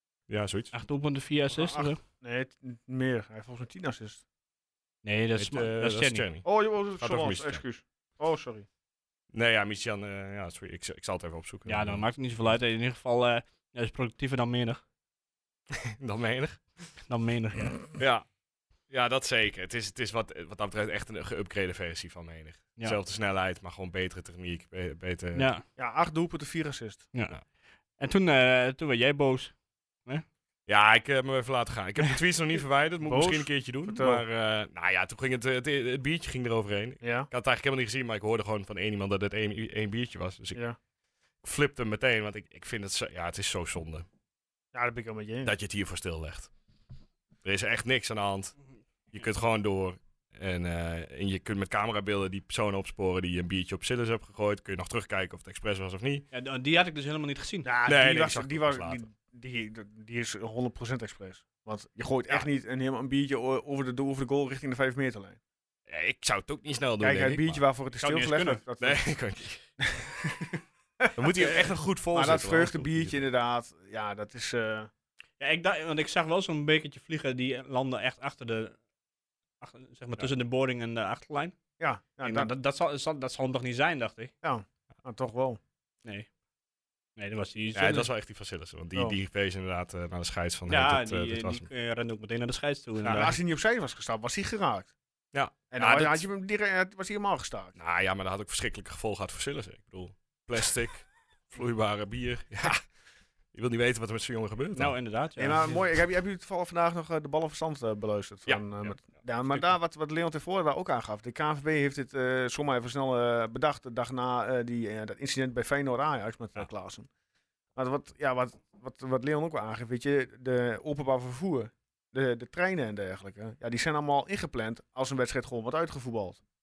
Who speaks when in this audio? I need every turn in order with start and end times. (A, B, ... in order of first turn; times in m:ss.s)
0:00.3-0:00.7 A
0:00.7-0:02.0 B
0:01.5-0:04.2 C
0:05.0-0:06.2 B
0:05.4-0:06.4 A
0:06.4-0:08.6 C
0:07.0-0:07.6 A
0:09.3-0:12.0 A
0:11.7-0:14.8 B
0:15.7-0:16.9 A
0:17.1-0:17.8 B
0:17.9-0:18.2 A
0:18.9-0:25.5 A
0:25.3-0:25.6 B
0:25.8-0:27.1 C
0:27.1-0:27.4 B
0:28.0-0:29.5 B
0:30.6-0:40.6 A
0:33.0-0:34.2 C
0:37.0-0:37.3 C
0:41.4-0:44.0 A
0:44.7-0:45.5 C
0:45.4-0:46.5 A
0:47.4-0:48.6 A
0:49.1-0:56.2 A
0:56.3-0:57.7 B
0:57.6-1:05.4 C
0:57.9-0:59.0 A
1:05.9-1:07.6 A
1:07.0-1:09.1 C
1:08.0-1:08.6 B
1:08.8-1:09.6 A
1:09.8-1:10.1 C
1:11.0-1:14.9 C
1:11.2-1:13.2 A
1:15.4-1:18.8 B
1:19.6-1:21.5 B
1:21.8-1:22.5 C
1:22.2-1:24.3 B
1:24.4-1:25.6 C
1:27.2-1:28.1 B
1:27.7-1:31.7 A
1:30.7-1:33.4 B
1:33.0-1:33.3 A
1:33.1-1:34.9 C
1:35.3-1:36.2 A
1:35.7-1:37.8 C
1:37.8-1:42.9 A
1:43.5-1:44.9 A
1:44.8-1:45.8 B
1:45.4-1:57.1 C
1:48.4-1:49.6 A
1:57.8-2:06.4 C